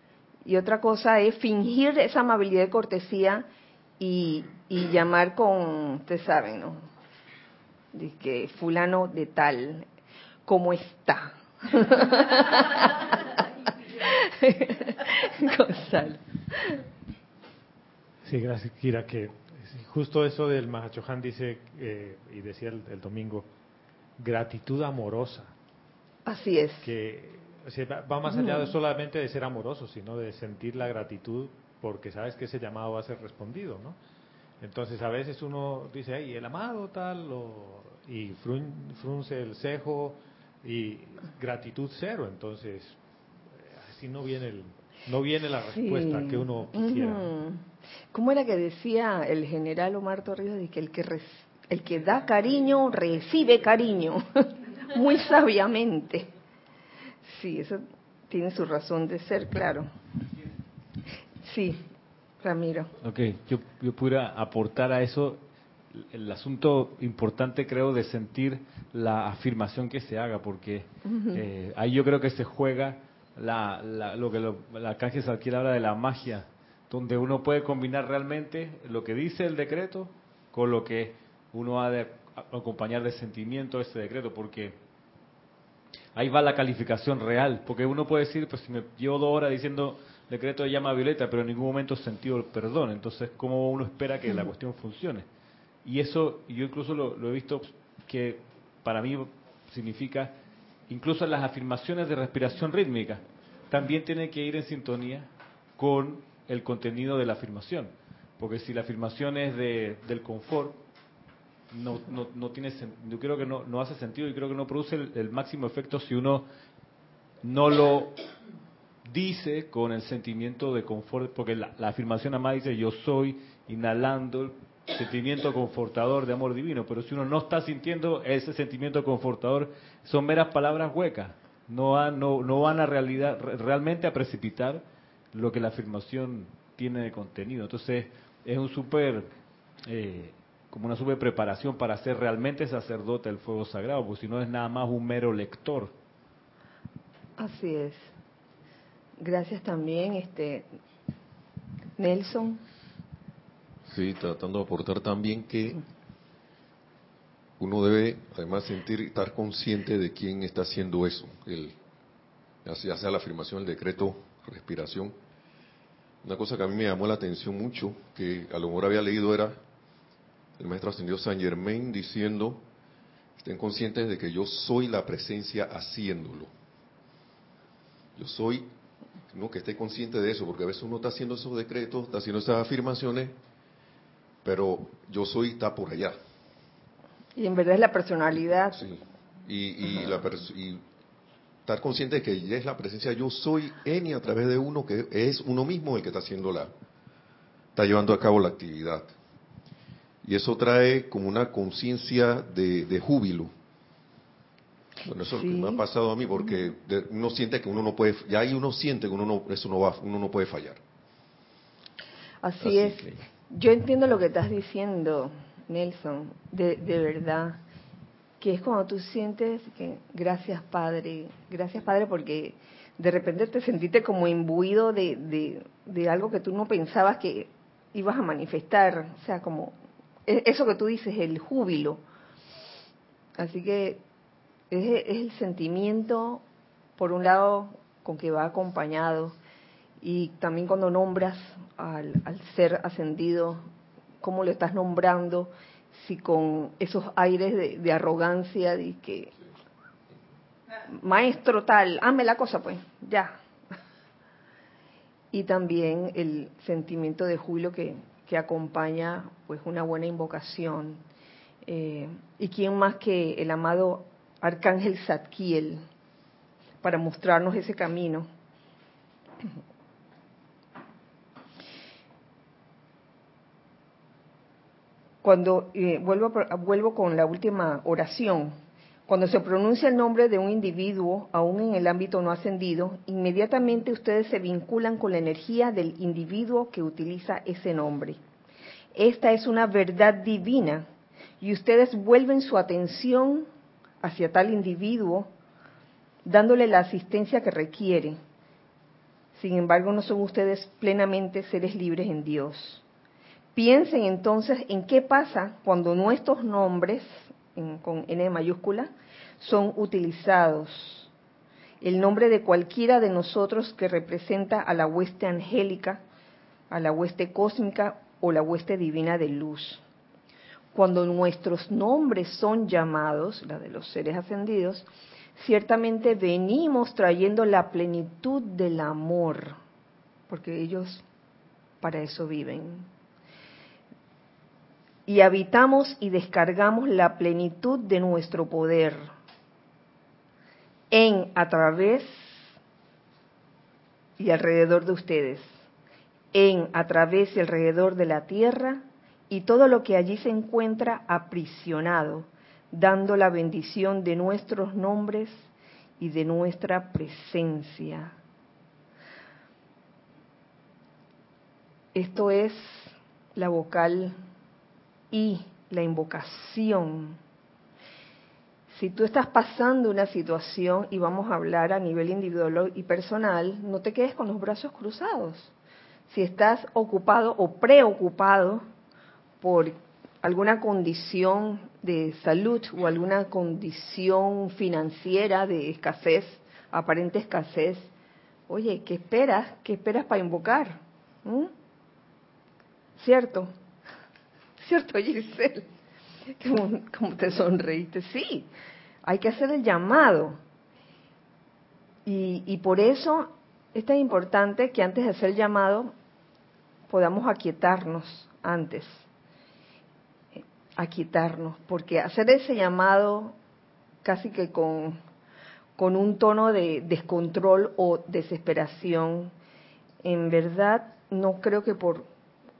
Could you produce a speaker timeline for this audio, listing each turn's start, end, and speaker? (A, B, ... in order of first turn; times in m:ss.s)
0:00.4-0:03.4 A
0:04.0-0:06.8 A
0:07.9-0:09.9 A
0:10.4-0:16.8 A
0:18.2-0:23.5 B
0:24.2-0:25.5 B
0:26.2-0:26.9 A
0:26.8-0:34.0 B
0:28.3-0:28.7 A
0:34.6-0:43.0 B
0:43.6-0:47.3 B
0:45.7-0:56.3 A
0:57.2-0:59.9 A
1:01.4-1:01.8 A
1:02.4-1:02.9 A
1:03.0-1:05.4 C
1:05.9-1:24.8 C
1:11.0-1:11.4 A
1:26.1-1:35.2 C
1:35.8-1:40.3 C
1:40.9-1:50.8 C
1:51.7-1:56.4 C
1:57.4-1:58.2 C
1:59.0-2:19.3 C
2:19.8-2:25.9 C
2:27.4-2:28.1 A
2:29.2-2:30.7 A
2:32.0-2:32.6 A
2:33.9-2:35.8 D
2:37.6-2:41.8 D
2:42.6-2:45.1 D
2:46.2-2:49.6 D
2:50.6-2:52.6 D
2:53.4-2:56.5 D
2:58.2-2:58.7 D
2:59.3-3:03.3 D
3:04.4-3:06.2 D
3:07.4-3:08.8 A
3:08.8-3:10.8 D
3:11.6-3:16.7 D
3:17.7-3:19.1 D
3:20.2-3:23.5 D
3:25.0-3:30.8 D
3:25.3-3:25.8 A
3:32.4-3:37.6 A
3:32.6-3:33.2 D
3:38.4-3:49.7 A
3:50.3-3:52.0 A
3:53.4-3:54.0 A
3:54.7-3:56.4 A
3:57.0-3:59.4 A
4:00.0-4:03.6 A
4:04.2-4:09.3 A
4:10.9-4:13.4 A
4:15.3-4:21.0 A
4:21.6-4:25.8 A
4:26.8-4:28.3 A
4:35.2-4:38.6 A
4:39.1-4:48.2 A
4:48.9-4:50.8 A
4:51.4-4:53.5 A
4:54.0-4:55.3 A
4:56.2-4:58.2 A
4:59.3-5:02.8 A
5:03.5-5:11.1 A
5:11.8-5:16.0 A
5:16.7-5:19.8 A
5:20.7-5:29.6 A
5:30.3-5:31.0 A
5:31.8-5:32.9 A
5:35.1-5:39.1 A
5:40.9-5:42.4 A
5:44.2-5:45.5 A
5:46.3-5:55.5 A
5:56.0-5:58.2 A
6:01.9-6:04.1 A
6:05.1-6:07.2 A
6:08.7-6:15.5 A
6:16.1-6:18.6 A
6:19.4-6:27.9 A
6:28.5-6:31.5 A
6:33.0-6:33.5 A
6:34.6-6:35.6 A
6:36.4-6:38.5 A
6:39.0-6:40.4 A
6:42.0-6:45.9 A
6:46.9-6:49.0 A
6:50.4-6:53.3 A
6:54.0-6:55.0 A
6:55.8-6:59.3 A
7:00.0-7:02.1 A